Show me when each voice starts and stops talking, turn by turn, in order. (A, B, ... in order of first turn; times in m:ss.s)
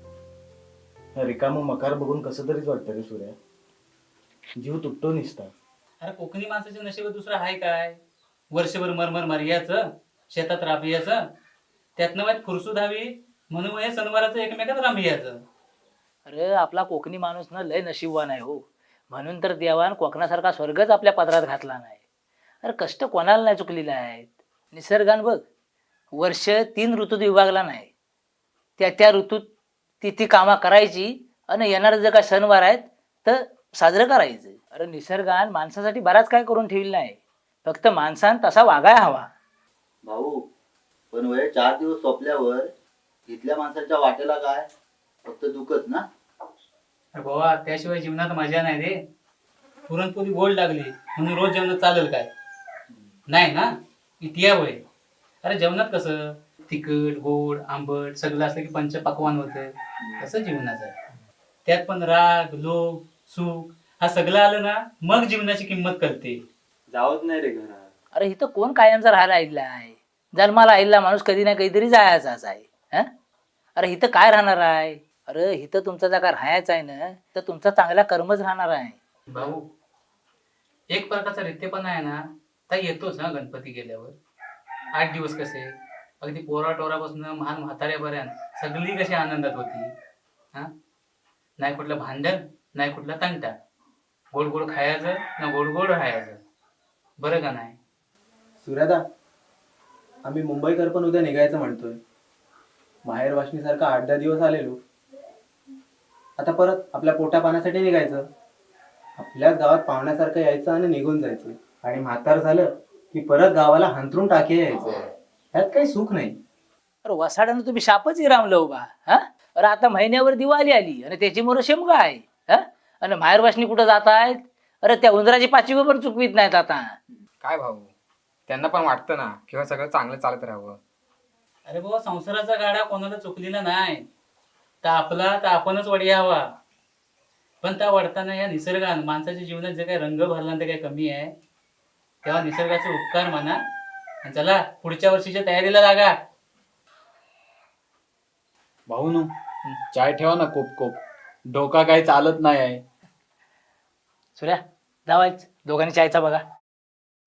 0:01.2-0:03.4 A
0:04.6-0:05.5 A
0:06.0-0:08.0 B
0:08.5-0:11.2 B
0:12.0-0:15.4 B
0:16.3-0:22.0 C
0:22.6-0:25.4 C
0:26.2-0:27.9 C
0:28.8-0:29.5 C
0:30.0-0:39.3 C
0:40.0-0:40.4 D
0:41.1-0:42.7 D
0:43.3-0:44.7 D
0:45.2-0:46.1 D
0:47.2-0:49.0 B
0:49.9-0:52.3 B
0:53.3-0:53.7 B
0:54.2-0:54.8 B
0:55.4-1:01.0 B
1:01.7-1:06.4 B
1:08.1-1:13.1 C
1:13.8-1:19.0 C
1:19.3-1:19.6 B
1:20.9-1:24.2 B
1:25.0-1:29.9 B
1:31.6-1:33.5 B
1:34.3-1:36.4 B
1:37.2-1:37.8 B
1:38.6-1:39.0 E
1:40.2-1:42.0 E
1:43.1-1:44.8 E
1:46.4-1:48.2 E
1:49.2-1:56.4 E
1:57.0-2:07.0 C
2:07.4-2:07.9 F
2:08.5-2:10.8 F
2:11.7-2:14.0 B
2:14.8-2:16.5 B
2:17.6-2:21.3 B
2:22.2-2:23.6 B
2:24.2-2:26.2 B
2:28.9-2:29.3 G
2:30.0-2:31.0 G
2:31.5-2:32.8 G
2:34.4-2:36.4 C